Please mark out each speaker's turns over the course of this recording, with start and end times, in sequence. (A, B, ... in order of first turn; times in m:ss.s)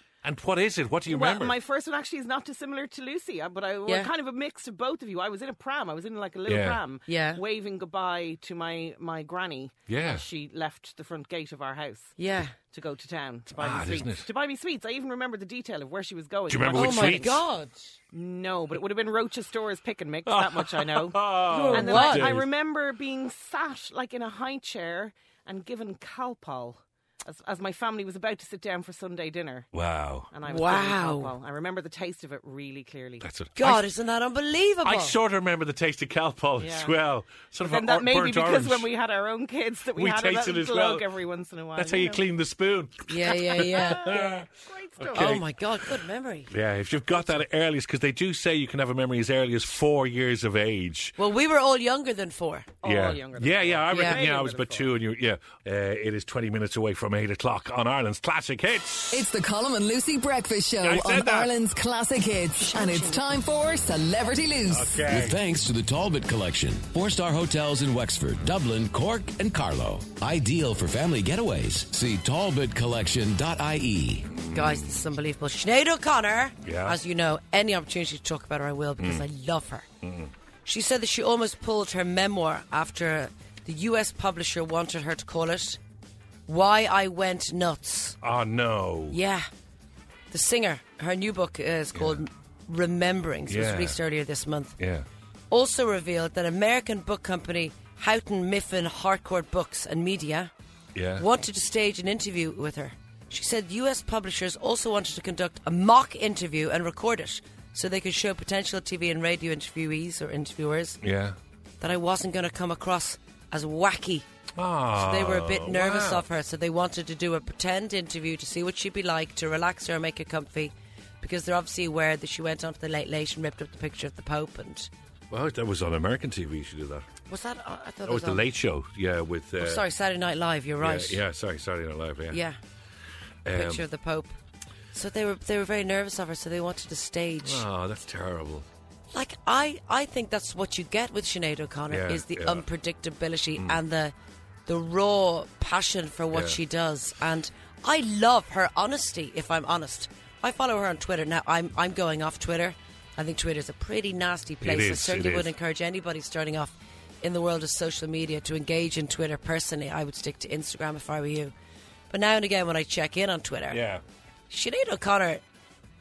0:00.2-0:01.6 A
0:01.1-0:17.4 B
0:06.5-0:06.8 A
0:07.1-0:07.4 C
0:09.9-0:10.3 A
0:12.2-0:12.6 C
0:13.5-0:14.3 A
0:16.5-0:17.4 A
0:16.7-0:17.9 C
0:18.1-0:29.7 B
0:20.3-0:22.5 A
0:21.5-0:22.4 C
0:29.7-0:30.3 A
0:30.3-0:33.3 B
0:30.4-0:31.3 C
0:33.2-0:33.9 A
0:33.6-0:35.2 C
0:34.8-0:38.9 A
0:36.6-0:37.0 B
0:37.6-0:42.2 B
0:39.9-0:41.1 A
0:41.8-0:44.5 A
0:43.1-0:44.1 C
0:43.6-0:45.4 B
0:45.0-0:45.5 A
0:45.1-0:46.5 C
0:46.5-0:51.2 A
0:51.2-0:52.7 C
0:52.8-0:54.9 B
0:52.8-0:59.3 A
0:53.9-0:54.2 C
0:59.1-1:05.0 D
1:00.8-1:01.5 A
1:02.6-1:03.2 C
1:04.7-1:05.4 A
1:05.1-1:14.3 E
1:14.3-1:15.0 A
1:14.5-1:19.9 C
1:16.6-1:17.0 A
1:19.0-1:19.2 A
1:20.0-1:20.3 A
1:20.7-1:25.8 C
1:26.5-1:28.2 C
1:28.2-1:29.2 A
1:29.1-1:29.5 C
1:30.3-1:34.8 C
1:31.9-1:32.2 A
1:33.5-1:34.0 A
1:34.8-1:35.1 A
1:35.5-1:40.5 C
1:40.9-1:41.3 A
1:41.2-1:51.0 C
1:51.0-1:51.4 A
1:51.8-1:54.3 C
1:54.6-1:56.3 A
1:55.0-2:04.9 C
2:05.3-2:07.1 A
2:07.3-2:08.4 C
2:08.0-2:09.8 A
2:09.6-2:11.2 C
2:10.8-2:12.4 A
2:12.3-2:12.6 C
2:13.4-2:13.8 A
2:13.5-2:14.4 C
2:14.9-2:17.7 C
2:17.4-2:18.7 A
2:19.1-2:24.1 C
2:21.9-2:22.7 A
2:24.7-2:41.5 C
2:26.3-2:26.6 A
2:34.6-2:35.5 A
2:42.1-2:43.8 C
2:43.7-2:44.0 A
2:44.5-2:45.4 C